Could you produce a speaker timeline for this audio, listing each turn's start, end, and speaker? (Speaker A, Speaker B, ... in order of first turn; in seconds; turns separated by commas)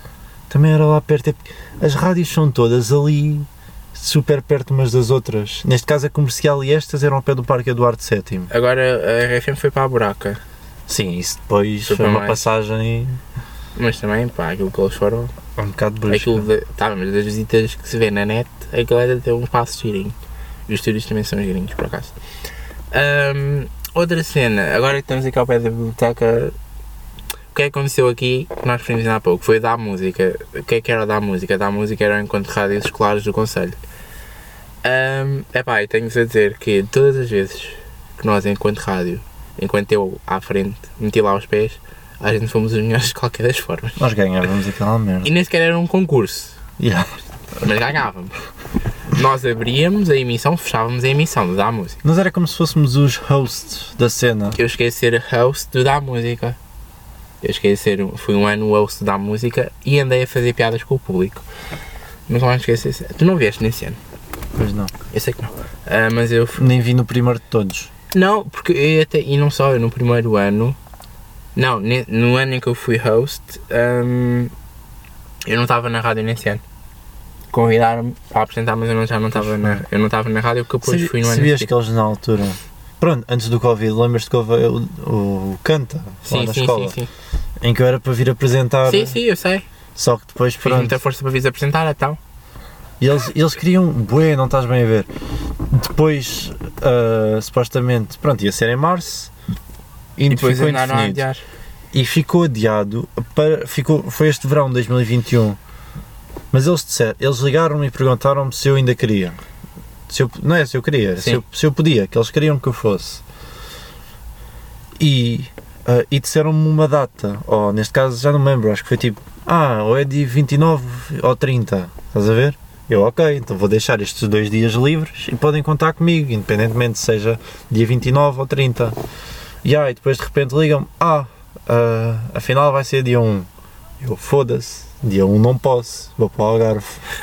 Speaker A: 0.5-8.5, Speaker B: 8.5-10.4, Speaker A: 10.9-13.2, Speaker B: 11.8-12.4, Speaker B: 13.8-15.3, Speaker A: 15.6-16.5, Speaker B: 16.1-20.1, Speaker B: 20.7-22.1, Speaker B: 22.9-26.5, Speaker B: 27.5-33.8, Speaker B: 34.8-44.0, Speaker A: 44.0-45.3, Speaker B: 45.2-46.6, Speaker A: 46.8-47.1, Speaker B: 47.6-48.4, Speaker B: 49.1-52.0, Speaker A: 52.0-54.6, Speaker B: 54.6-56.6, Speaker B: 57.4-61.4, Speaker B: 62.3-64.0, Speaker A: 64.5-64.9, Speaker B: 65.1-66.7, Speaker A: 66.6-67.9, Speaker B: 68.1-70.8, Speaker B: 71.5-74.5, Speaker B: 75.4-76.6, Speaker B: 77.5-81.7, Speaker A: 79.3-79.8, Speaker A: 80.8-86.9, Speaker B: 86.3-87.1, Speaker A: 87.6-89.2, Speaker B: 88.8-89.6, Speaker A: 90.0-91.0, Speaker B: 90.6-92.2, Speaker A: 93.0-95.1, Speaker A: 95.7-99.3, Speaker A: 100.2-101.2, Speaker B: 100.3-101.4, Speaker A: 101.9-105.6, Speaker A: 106.5-109.4, Speaker A: 110.1-113.2, Speaker A: 115.0-129.0, Speaker A: 129.6-133.5, Speaker A: 134.0-137.0